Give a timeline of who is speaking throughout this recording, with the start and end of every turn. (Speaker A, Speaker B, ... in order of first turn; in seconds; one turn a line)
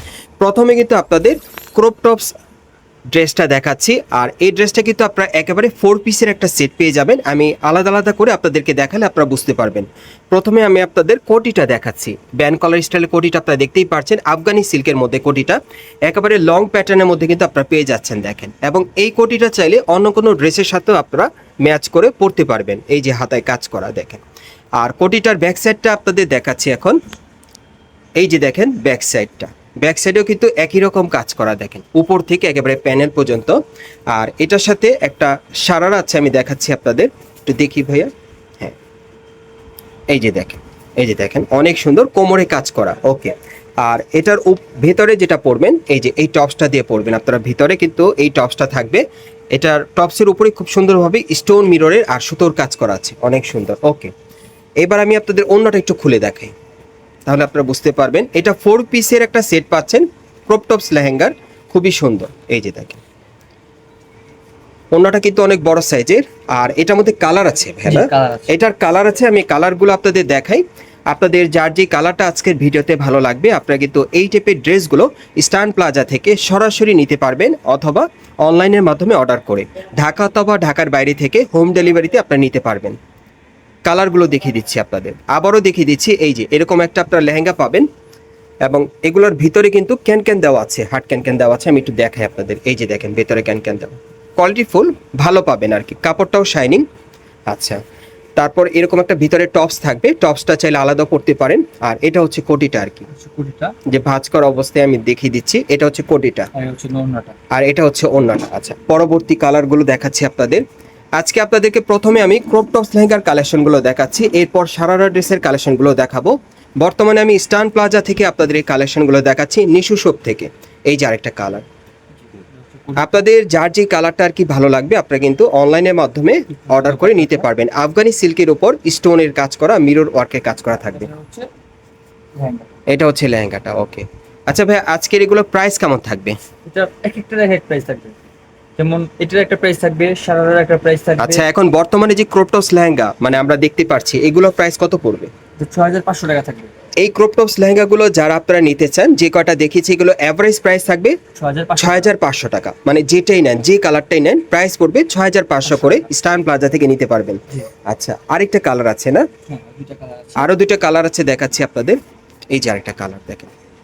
Speaker A: 0.4-2.3
Speaker A: 3.1-24.2
Speaker A: 24.8-27.0
Speaker A: 28.2-33.6
Speaker A: 34.1-38.8
Speaker A: 40.1-54.1
Speaker A: 54.8-56.5
Speaker A: 57.3-63.0
Speaker A: 64.9-83.0
Speaker B: 67.9-68.5
Speaker A: 83.8-87.9
Speaker A: 88.7-96.9
Speaker A: 97.5-97.8
Speaker A: 98.4-103.1
Speaker B: 103.1-103.8
Speaker A: 103.9-106.5
Speaker B: 106.5-107.4
Speaker A: 107.5-110.7
Speaker A: 111.2-121.7
Speaker B: 122.2-123.2
Speaker A: 123.0-131.1
Speaker B: 126.7-127.5
Speaker B: 130.9-131.5
Speaker B: 132.3-132.7
Speaker A: 132.9-136.4
Speaker B: 136.7-138.2
Speaker B: 138.8-141.4
Speaker A: 141.2-145.3
Speaker B: 145.6-146.7
Speaker A: 147.0-151.2
Speaker B: 151.4-152.1
Speaker A: 151.8-159.3
Speaker B: 155.7-156.1
Speaker B: 159.5-160.5
Speaker A: 160.4-162.0
Speaker A: 162.5-163.5